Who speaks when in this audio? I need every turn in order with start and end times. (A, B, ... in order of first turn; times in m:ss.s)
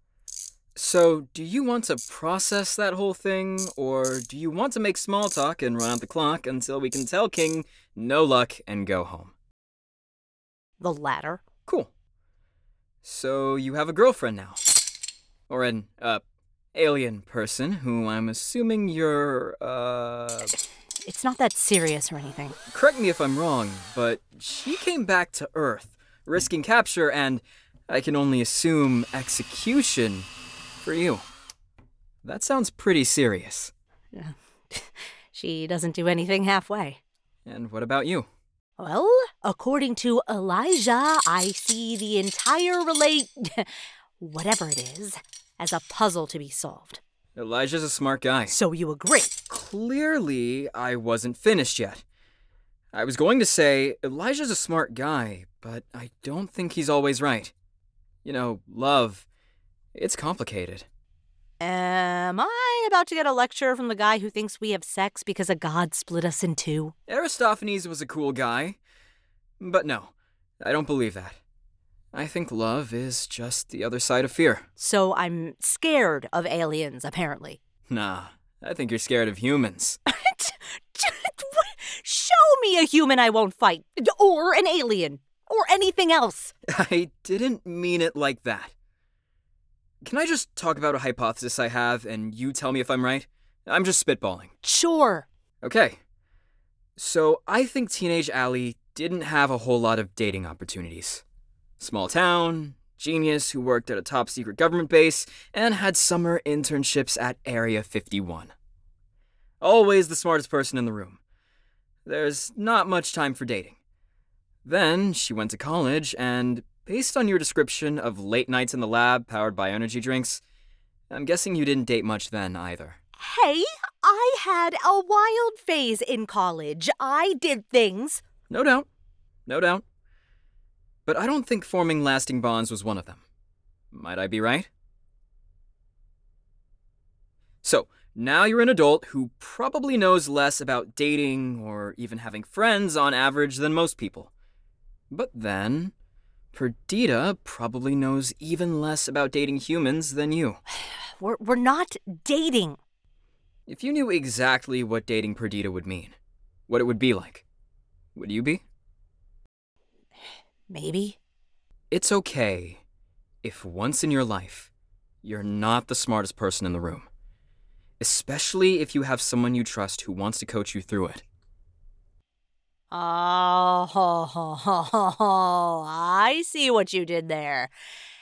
0:00.7-0:09.3 A
0:10.8-0:11.4 B
0:11.6-0:11.9 A
0:13.0-0:14.6 A
0:15.5-0:16.2 A
0:16.7-0:20.5 A
0:21.0-0:22.6 B
0:22.7-0:30.3 A
0:30.8-0:31.2 A
0:32.2-0:33.7 A
0:34.1-0:37.0 B
0:37.4-0:38.3 A
0:38.8-0:47.0 B
0:47.4-0:48.6 A
0:48.5-0:49.4 B
0:49.5-0:52.0 A
0:52.9-0:57.5 A
0:58.2-0:59.2 A
0:59.9-1:00.9 A
1:01.6-1:06.9 B
1:07.1-1:08.8 A
1:09.6-1:11.4 A
1:12.1-1:14.6 A
1:14.8-1:17.6 B
1:17.9-1:20.0 A
1:20.1-1:26.5 B
1:26.7-1:28.7 A
1:30.0-1:34.5 A
1:34.6-1:35.3 B
1:35.6-1:36.0 A
1:37.0-1:41.2 A
1:41.8-1:48.5 A
1:49.6-1:51.2 A
1:52.0-1:53.8 A
1:54.6-2:00.4 A
2:01.1-2:03.0 A
2:03.2-2:08.2 B
2:08.5-2:08.9 A
2:09.5-2:09.8 A
2:11.0-2:13.2 A
2:13.9-2:14.7 A
2:17.6-2:24.3 A
2:25.1-2:25.9 A
2:26.5-2:30.6 A
2:31.2-2:32.8 B
2:33.7-2:36.1 A
2:36.7-2:37.4 A
2:38.1-2:38.6 A
2:40.7-2:41.2 B
2:41.9-2:42.8 A
2:43.4-2:44.7 A
2:45.2-2:47.1 A
2:48.0-2:51.2 A
2:52.9-2:57.7 B